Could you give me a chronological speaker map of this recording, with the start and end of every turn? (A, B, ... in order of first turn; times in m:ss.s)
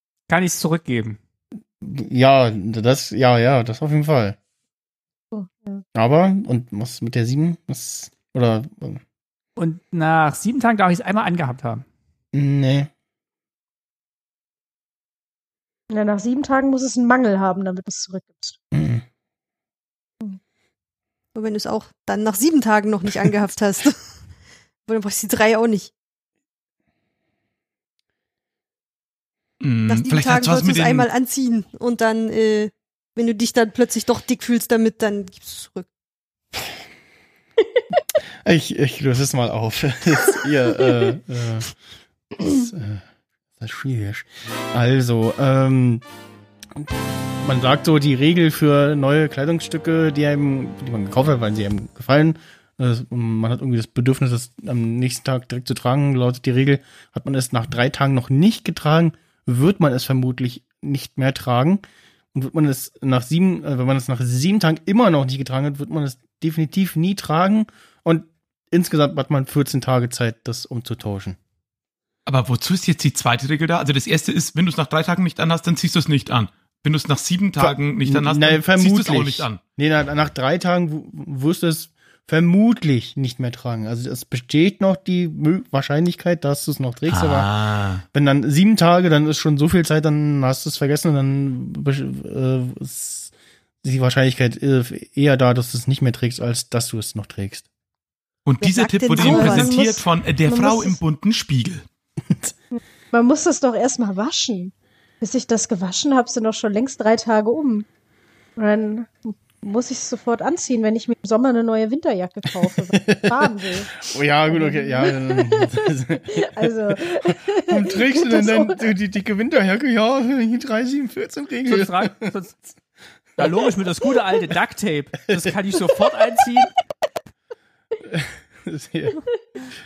0:00.3-0:01.2 A
0:01.8-0:04.4 B
0:05.3-0:05.8 C
0:05.9-0:09.0 B
0:09.6-0:11.8 A
0:12.3-0:12.9 B
0:15.9-0:18.6 C
0:18.7-0:19.0 B
0:21.3-0:24.0 D
0:24.8-0:25.9 D
0:29.6-0:31.1 E
0:29.9-0:35.8 D
0:38.4-0:41.7 B
0:42.4-0:43.0 B
0:43.6-0:46.0 B
0:46.7-1:01.8 B
1:02.3-1:11.4 B
1:12.2-1:19.6 E
1:17.6-1:27.5 B
1:27.1-1:28.0 E
1:28.1-1:33.3 B
1:33.8-1:37.6 B
1:38.4-1:41.8 E
1:38.6-1:39.7 D
1:39.1-1:41.0 C
1:42.7-1:47.8 C
1:48.6-1:58.8 C
1:52.7-2:02.3 B
2:01.6-2:02.6 A
2:03.4-2:06.7 A
2:05.3-2:05.5 B
2:08.0-2:09.2 B